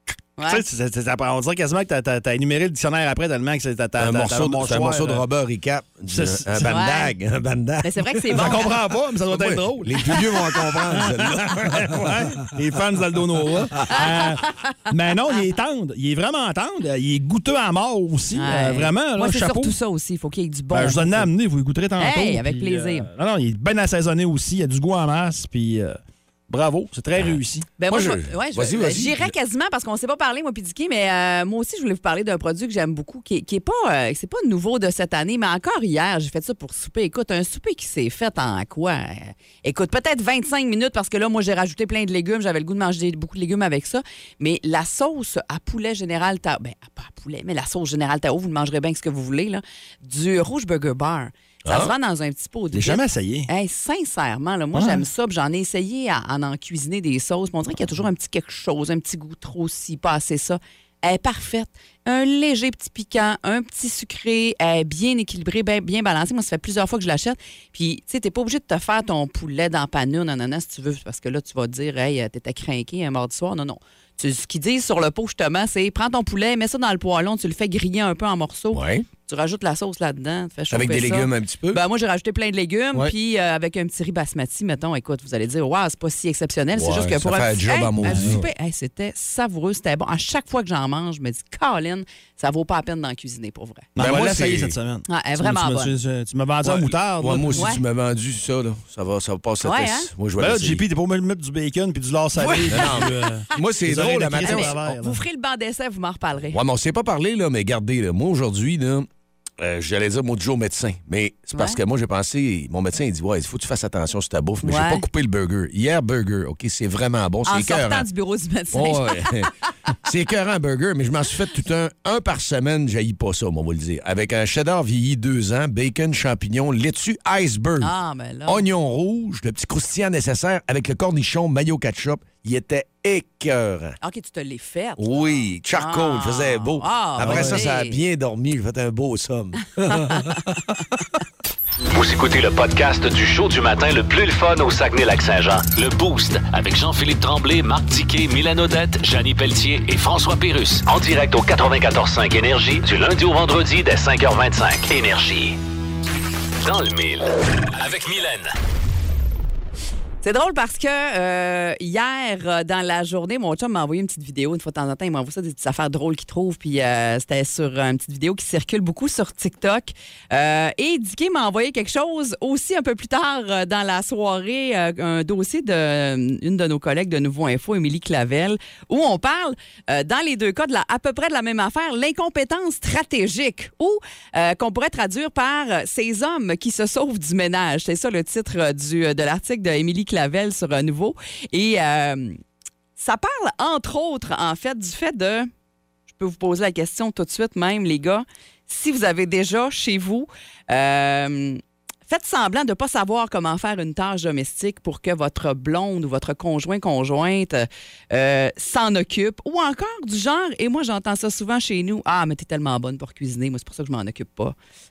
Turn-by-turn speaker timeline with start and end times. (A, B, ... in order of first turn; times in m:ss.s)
0:00.4-0:00.6 A
0:00.4-0:05.2 B
0:04.0-0:08.7 C
0:06.1-0:06.6 B
0:06.6-0:07.1 A
0:07.8-0:08.8 A
0:08.3-0:10.3 B
0:09.3-0:12.2 C
0:10.9-0:19.8 B
0:14.0-0:14.8 A
0:18.4-0:21.3 A
0:20.7-0:27.7 B
0:22.0-0:23.1 A
0:27.8-1:33.9 A
0:27.9-0:29.3 C
0:51.6-0:51.9 C
0:52.7-0:53.5 B
0:54.7-0:55.0 B
1:18.7-1:19.0 C
1:20.7-1:21.8 C
1:26.8-1:28.4 C
1:28.0-1:28.4 B
1:33.9-1:37.7 B
1:34.0-1:34.7 C
1:35.1-1:35.9 A
1:36.6-1:40.8 C
1:37.5-1:37.8 A
1:39.6-1:40.1 A
1:40.4-1:45.2 B
1:42.4-1:44.8 C
1:44.4-1:46.6 A
1:46.5-1:49.1 C
1:49.6-1:58.1 C
1:51.5-1:51.8 A
1:54.6-1:55.0 A
1:57.4-1:59.5 A
1:58.7-1:59.5 C
2:00.0-2:07.9 C
2:07.8-2:08.6 A
2:08.5-2:14.0 C
2:14.0-2:18.0 A
2:15.0-2:20.7 C
2:17.2-2:17.6 B
2:21.9-2:35.6 D
2:36.6-2:38.5 D
2:40.2-3:12.4 A
3:13.0-3:15.5 A
3:16.1-3:34.6 A